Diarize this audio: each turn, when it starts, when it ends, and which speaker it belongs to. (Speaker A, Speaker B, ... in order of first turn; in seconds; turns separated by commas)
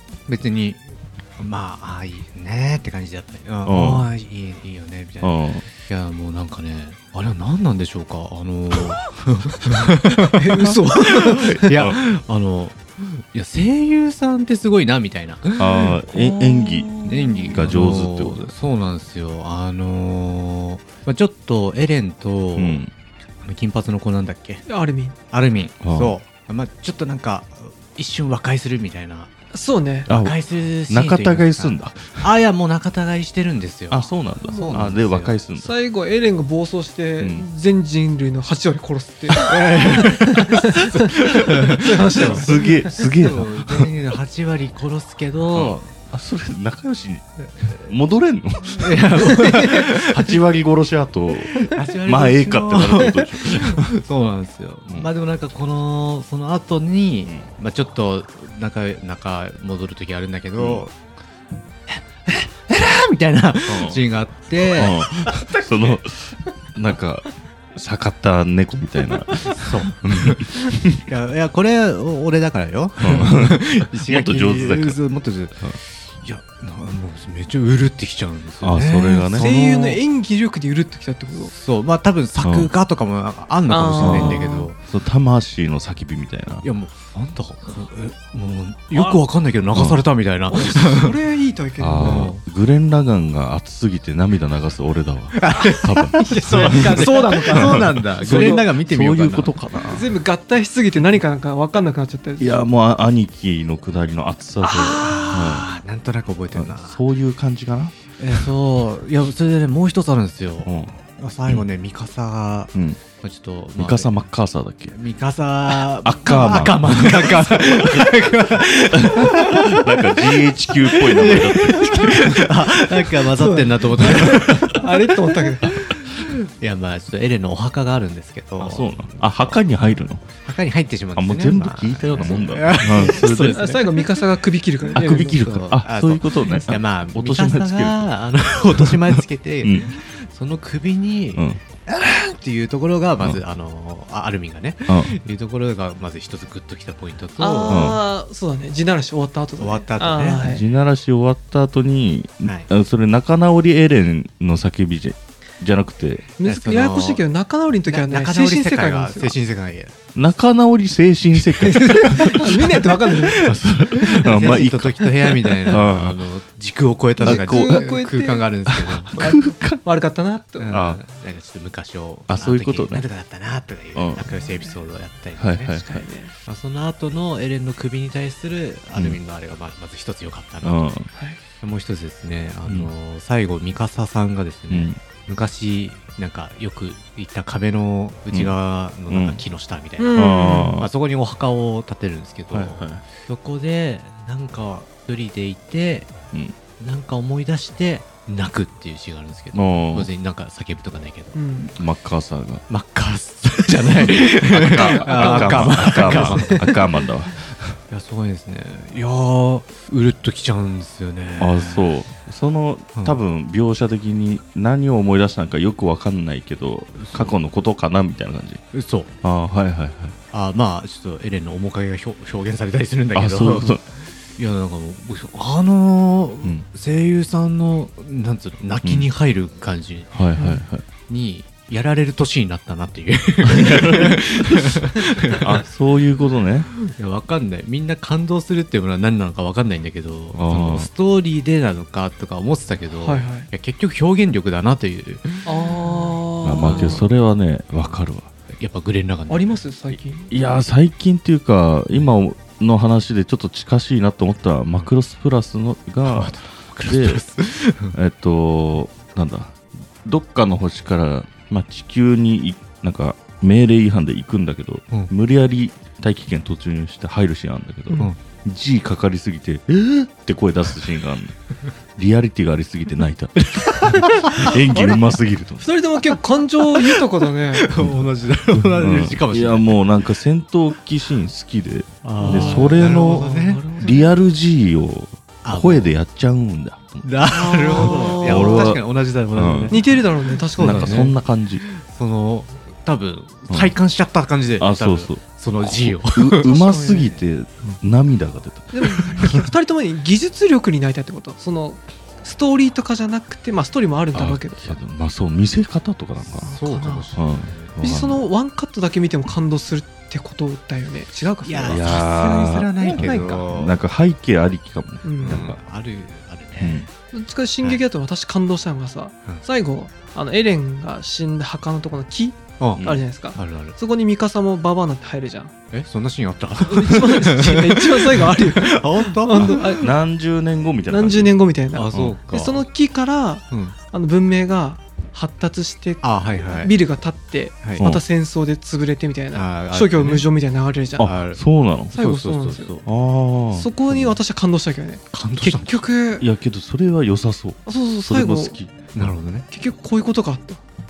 Speaker A: 0.3-0.8, Speaker A: 1.4-15.9, Speaker B: 3.7-4.1, Speaker B: 5.2-5.7, Speaker C: 10.3-11.6, Speaker B: 11.6-12.0, Speaker B: 15.6-18.5, Speaker C: 15.9-17.6, Speaker A: 17.0-22.8, Speaker B: 22.6-22.9, Speaker A: 23.4-24.6, Speaker C: 24.7-25.1, Speaker A: 25.3-29.3, Speaker B: 25.8-26.2, Speaker C: 29.5-30.1, Speaker B: 30.1-30.4, Speaker A: 30.1-35.4, Speaker B: 30.9-32.2, Speaker B: 33.9-35.7, Speaker C: 34.5-34.9, Speaker C: 35.6-42.9, Speaker B: 37.2-37.5, Speaker A: 39.3-45.9, Speaker B: 42.2-43.9, Speaker B: 45.5-53.9, Speaker A: 48.8-50.4, Speaker A: 51.7-61.0, Speaker B: 60.6-60.9, Speaker A: 61.9-66.0, Speaker B: 63.7-64.0, Speaker B: 64.8-71.0, Speaker A: 69.5-80.0, Speaker B: 73.0-75.0, Speaker B: 78.6-79.5, Speaker C: 79.3-81.5, Speaker A: 81.3-84.8, Speaker B: 82.4-82.7, Speaker C: 83.7-84.7, Speaker B: 84.0-86.7, Speaker A: 86.6-91.2, Speaker C: 88.9-89.2, Speaker B: 89.7-90.0, Speaker C: 90.5-92.3, Speaker B: 91.8-100.1, Speaker A: 92.0-92.4, Speaker A: 95.4-99.6, Speaker C: 96.5-98.7, Speaker C: 99.8-102.6, Speaker B: 102.4-105.7, Speaker A: 104.6-107.0, Speaker B: 106.5-108.5, Speaker A: 108.2-114.2, Speaker B: 110.7-111.0, Speaker B: 112.7-113.0, Speaker B: 113.8-115.0, Speaker A: 114.9-129.8, Speaker B: 115.7-122.5, Speaker C: 123.0-125.7, Speaker B: 128.6-130.2, Speaker A: 130.3-134.1, Speaker B: 131.2-133.6, Speaker C: 132.2-135.4, Speaker B: 134.9-138.1, Speaker A: 135.2-148.0, Speaker B: 138.8-140.0, Speaker C: 147.4-150.6, Speaker B: 147.7-148.0, Speaker A: 149.6-150.5, Speaker B: 150.4-156.3, Speaker C: 156.4-159.3, Speaker A: 156.4-157.2, Speaker A: 157.8-159.9, Speaker B: 160.2-166.2, Speaker C: 161.6-163.5, Speaker A: 161.7-169.4, Speaker C: 164.2-164.6, Speaker C: 167.2-168.5, Speaker B: 167.2-167.8, Speaker B: 168.7-169.8, Speaker C: 169.1-170.8, Speaker A: 170.6-175.8, Speaker B: 170.7-171.0, Speaker B: 172.3-173.1, Speaker B: 173.9-174.2, Speaker C: 174.3-174.8, Speaker B: 175.4-175.9, Speaker C: 175.7-176.3, Speaker A: 176.4-180.9, Speaker B: 178.9-179.2, Speaker B: 180.6-181.1, Speaker C: 181.1-181.4, Speaker A: 181.6-196.1, Speaker B: 182.7-182.9, Speaker B: 184.7-185.0, Speaker B: 188.3-188.6, Speaker B: 189.1-189.4, Speaker C: 190.0-190.8, Speaker B: 190.2-190.9, Speaker B: 192.5-193.0, Speaker A: 196.8-201.4, Speaker B: 199.5-200.1, Speaker C: 201.3-201.7, Speaker B: 201.8-202.7, Speaker A: 202.7-206.8, Speaker B: 204.3-207.8, Speaker C: 204.7-206.7, Speaker A: 207.9-211.9, Speaker B: 211.4-218.6, Speaker A: 217.0-217.3, Speaker A: 218.7-219.1, Speaker B: 219.2-220.2, Speaker A: 220.3-230.4, Speaker B: 223.2-223.8, Speaker B: 228.8-229.1, Speaker B: 230.1-230.8, Speaker C: 230.4-230.6, Speaker A: 231.1-235.6, Speaker B: 233.4-236.7, Speaker A: 236.9-247.1, Speaker B: 240.3-240.9, Speaker C: 243.0-243.5, Speaker C: 245.4-247.0, Speaker B: 246.4-248.3, Speaker A: 248.5-250.0, Speaker C: 249.3-250.3, Speaker B: 250.3-257.2, Speaker A: 256.1-258.0, Speaker B: 257.9-271.4, Speaker B: 272.0-275.7, Speaker A: 273.6-274.6, Speaker C: 274.4-277.7, Speaker A: 276.7-279.8, Speaker B: 278.5-287.1, Speaker A: 282.0-283.6, Speaker C: 282.2-284.1, Speaker A: 285.4-286.0, Speaker A: 287.0-296.5, Speaker C: 287.3-288.8, Speaker B: 287.7-289.8, Speaker C: 289.7-291.1, Speaker B: 290.6-291.6, Speaker B: 293.5-293.7, Speaker B: 294.6-299.4, Speaker C: 296.4-297.2, Speaker C: 298.7-304.8, Speaker A: 298.9-299.4, Speaker B: 304.1-306.5, Speaker A: 306.3-307.8, Speaker C: 306.4-307.1, Speaker B: 307.1-308.2, Speaker C: 307.8-312.0, Speaker A: 311.4-313.8, Speaker B: 311.7-315.6, Speaker C: 312.8-313.2, Speaker C: 315.0-315.5, Speaker A: 315.3-316.8, Speaker B: 316.6-316.9, Speaker C: 317.1-325.5, Speaker B: 322.8-323.1, Speaker A: 323.3-323.8, Speaker A: 325.7-329.9, Speaker C: 326.6-329.9, Speaker B: 329.8-332.2, Speaker C: 330.9-341.1, Speaker A: 331.7-332.6, Speaker A: 336.0-336.7, Speaker A: 339.3-340.3, Speaker B: 341.0-341.9, Speaker A: 341.0-341.4, Speaker C: 341.9-342.8, Speaker A: 341.9-342.9, Speaker B: 342.8-343.7, Speaker C: 343.5-346.2, Speaker A: 345.1-345.9, Speaker B: 346.2-349.1, Speaker C: 347.7-348.6, Speaker A: 348.9-349.5, Speaker C: 349.5-350.6